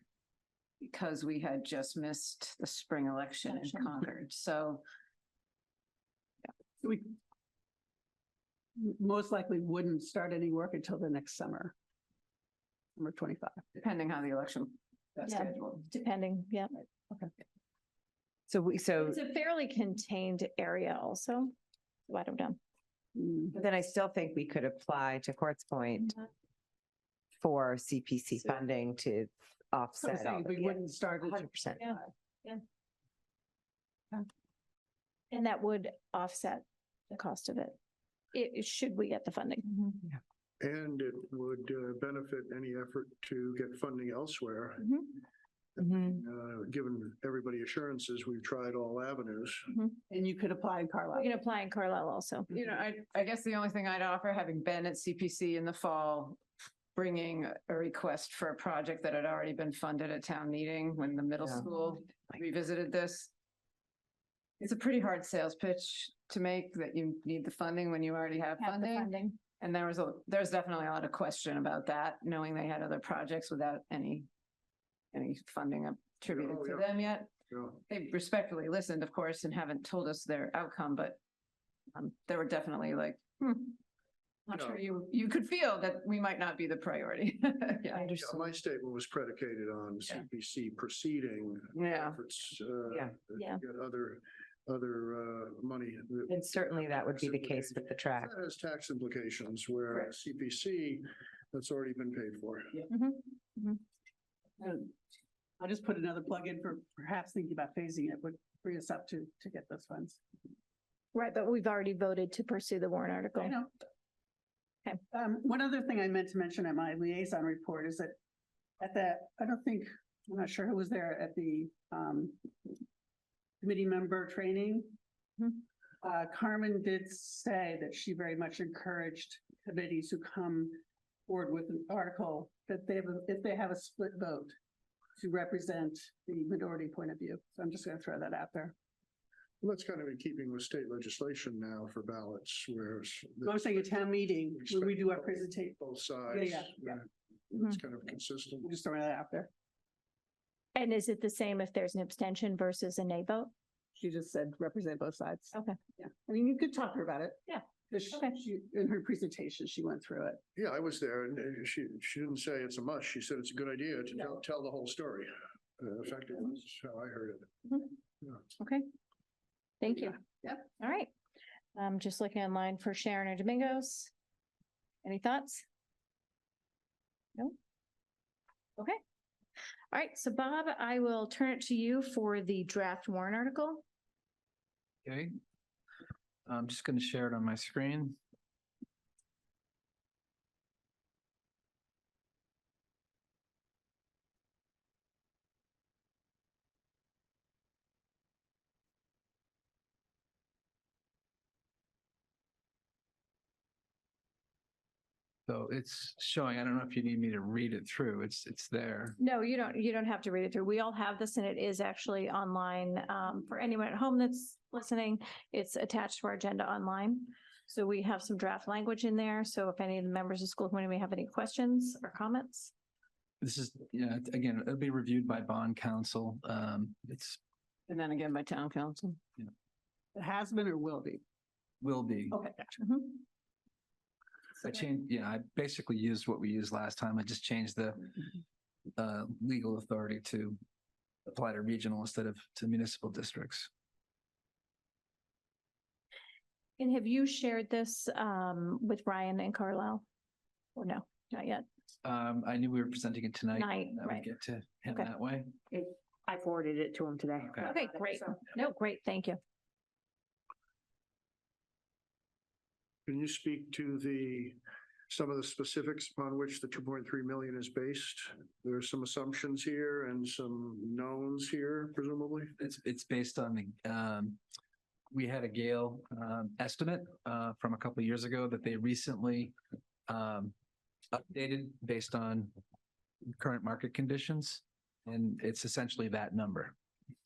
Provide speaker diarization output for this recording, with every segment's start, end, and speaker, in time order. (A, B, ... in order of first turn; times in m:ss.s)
0:00.8-0:04.8 A
0:06.8-0:07.1 B
0:08.8-0:11.7 B
0:13.0-0:13.7 B
0:13.8-0:15.8 A
0:15.3-0:16.7 C
0:18.5-0:19.2 D
0:19.0-0:21.5 C
0:22.1-0:22.6 C
0:23.2-0:23.6 B
0:23.5-0:26.2 D
0:27.4-0:31.9 D
0:30.0-0:32.1 B
0:35.3-0:37.8 C
0:38.3-0:40.0 C
0:40.6-0:45.1 E
0:45.8-0:49.7 E
0:49.7-0:50.0 C
0:50.1-0:51.3 B
0:51.1-0:52.5 C
0:52.5-0:56.4 A
0:57.0-1:03.3 A
1:04.6-1:14.3 A
1:08.6-1:09.4 C
1:15.1-1:17.3 A
1:16.3-1:17.8 E
1:17.9-1:21.2 A
1:22.0-1:23.8 A
1:24.5-1:28.3 A
1:24.5-1:24.8 E
1:28.0-1:42.8 E
1:31.8-1:32.2 A
1:36.3-1:38.3 D
1:42.9-1:43.8 C
1:44.6-1:44.9 B
1:45.6-1:50.2 B
1:51.1-1:53.6 C
1:53.4-1:53.7 B
1:55.1-1:58.2 B
1:58.8-2:02.8 B
2:03.6-2:05.0 B
2:06.0-2:14.6 B
2:15.2-2:18.7 B
2:19.6-2:28.8 E
2:23.4-2:27.0 B
2:28.6-2:29.5 B
2:30.8-2:33.5 C
2:34.0-2:40.4 B
2:37.5-2:38.4 C
2:40.6-2:48.4 E
2:48.6-2:48.9 C
2:49.8-2:51.1 C
2:51.8-2:54.1 C
2:55.0-2:55.6 C
2:59.9-3:03.8 C
3:05.0-3:05.3 F
3:06.5-3:08.2 F
3:25.5-3:29.2 F
3:29.2-3:42.7 C
3:43.4-3:47.4 F
3:47.9-3:49.2 A
3:50.2-3:51.2 B
3:51.8-3:52.4 F
3:52.3-3:52.6 B
3:52.8-3:53.2 C
3:54.6-3:58.2 F
3:59.0-4:00.6 F
4:01.3-4:03.7 F
4:06.8-4:10.0 C
4:10.8-4:11.6 C
4:12.0-4:15.6 F
4:13.5-4:14.3 C
4:15.7-4:18.4 G
4:17.4-4:17.8 F
4:17.6-4:19.4 C
4:23.1-4:24.6 E
4:25.1-4:32.6 E
4:32.6-4:34.4 F
4:35.1-4:39.6 F
4:40.1-4:40.5 F
4:41.1-4:42.5 F
4:43.4-4:46.8 F